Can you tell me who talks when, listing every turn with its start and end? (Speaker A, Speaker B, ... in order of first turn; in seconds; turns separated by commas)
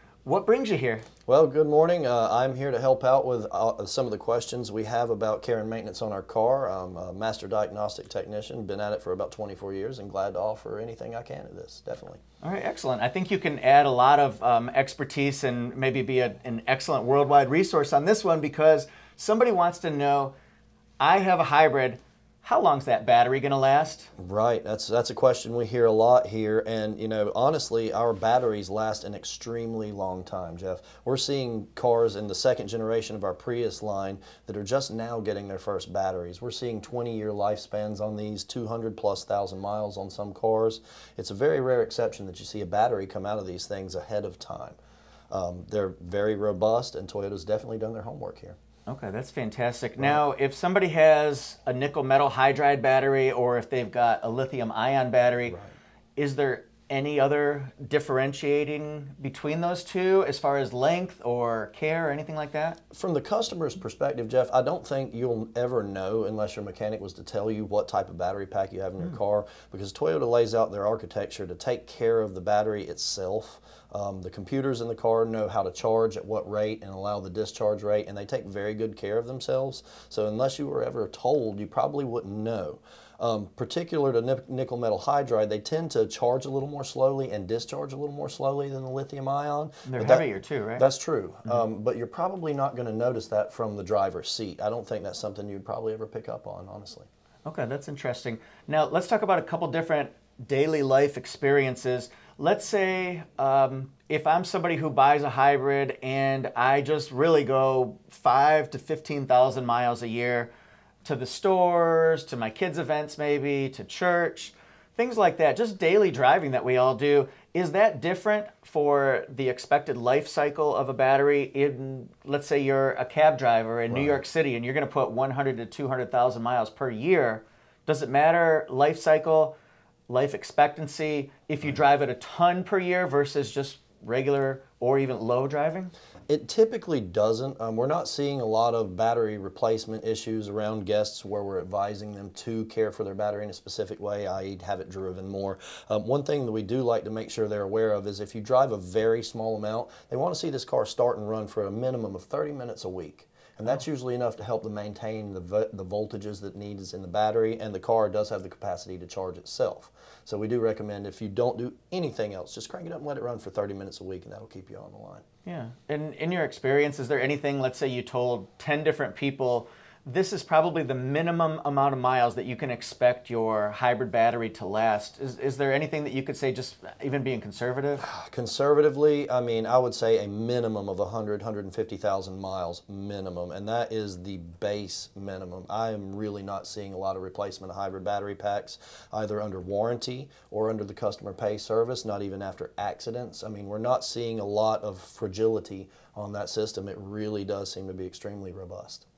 Speaker A: 0.2-1.1, Speaker B: 1.3-12.2, Speaker A: 12.4-20.3, Speaker A: 21.0-24.1, Speaker B: 24.2-44.8, Speaker B: 45.3-48.6, Speaker A: 48.9-55.6, Speaker B: 50.0-50.2, Speaker B: 55.5-55.8, Speaker A: 56.2-62.8, Speaker B: 62.9-97.1, Speaker A: 89.9-90.8, Speaker A: 97.5-110.5, Speaker A: 111.0-129.5, Speaker B: 123.9-124.2, Speaker A: 130.1-135.9, Speaker B: 136.3-165.2, Speaker A: 165.4-178.1, Speaker B: 178.0-199.0